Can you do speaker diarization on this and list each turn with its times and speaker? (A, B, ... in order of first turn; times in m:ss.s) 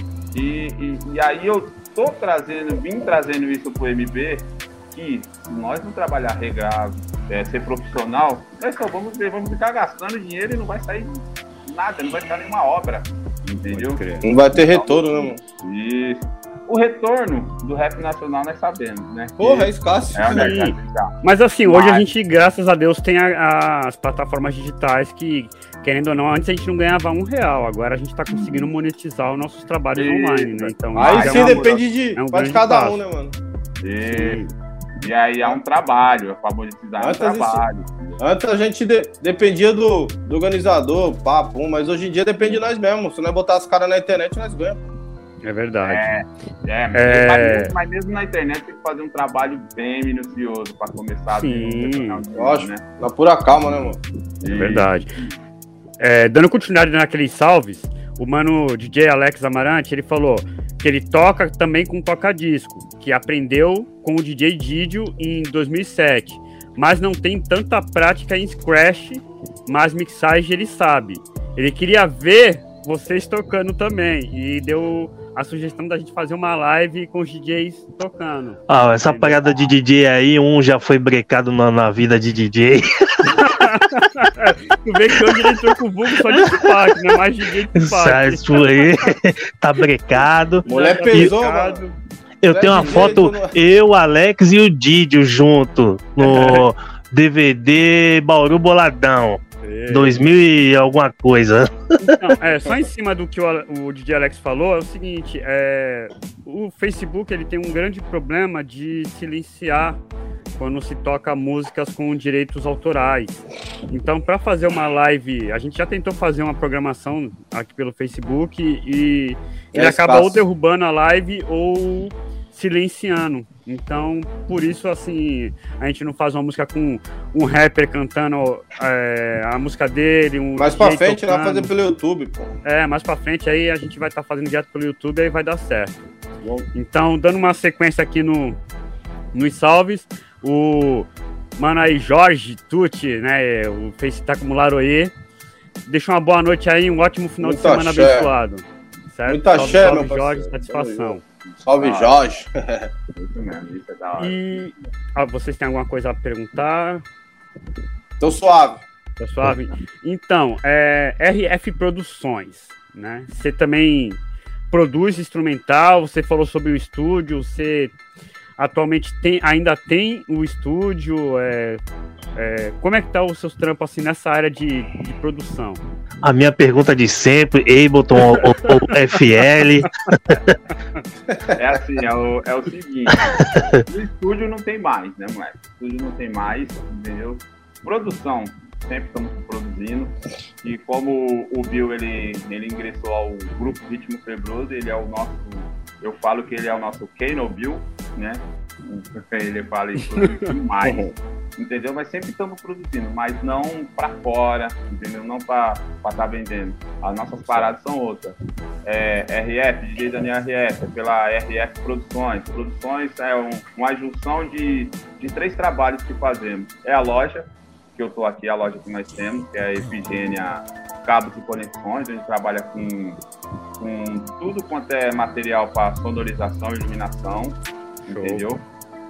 0:00.3-0:21.1 A
0:13.7-0:14.3 B
0:14.2-0:15.4 C
0:19.4-0:20.6 C
0:20.3-0:33.0 B
0:21.7-0:22.1 A
0:28.3-0:28.7 A
0:30.0-0:31.8 A
0:31.0-0:33.3 C
0:33.8-0:34.4 A
0:34.1-0:34.5 B
0:35.0-0:38.2 A
0:37.0-0:37.6 C
0:38.2-0:44.8 C
0:45.4-0:46.1 B
0:45.8-0:52.8 A
0:46.9-0:47.7 B
0:51.3-0:52.2 B
0:52.3-0:54.0 C
0:54.4-0:55.3 A
0:54.5-0:55.1 B
0:56.0-1:19.7 B
1:18.7-1:23.4 D
1:23.3-1:28.9 B
1:27.8-1:31.4 D
1:30.6-1:32.0 B
1:30.7-1:31.8 C
1:32.4-1:41.7 D
1:32.5-1:33.5 C
1:32.8-1:33.1 B
1:36.2-1:36.6 B
1:39.6-1:40.2 B
1:42.0-1:50.0 B
1:50.6-2:11.7 B
1:59.7-2:00.4 C
2:10.6-2:12.5 C
2:12.6-2:15.9 B
2:16.7-2:18.6 B
2:19.3-2:25.1 B
2:25.9-2:31.2 B
2:27.4-2:28.3 C
2:29.3-2:32.9 C
2:31.5-2:32.2 A
2:33.2-2:34.7 A
2:34.2-2:37.0 B
2:38.2-2:38.8 C
2:39.2-2:48.0 B
2:48.6-2:51.8 B
2:52.4-2:55.8 B
2:56.2-3:00.2 D
2:58.2-2:58.7 B
3:01.6-3:43.2 A
3:03.5-3:03.8 D
3:20.2-3:20.5 B
3:20.8-3:21.1 C
3:27.5-3:27.7 B
3:43.8-3:48.6 A
3:48.1-3:48.4 B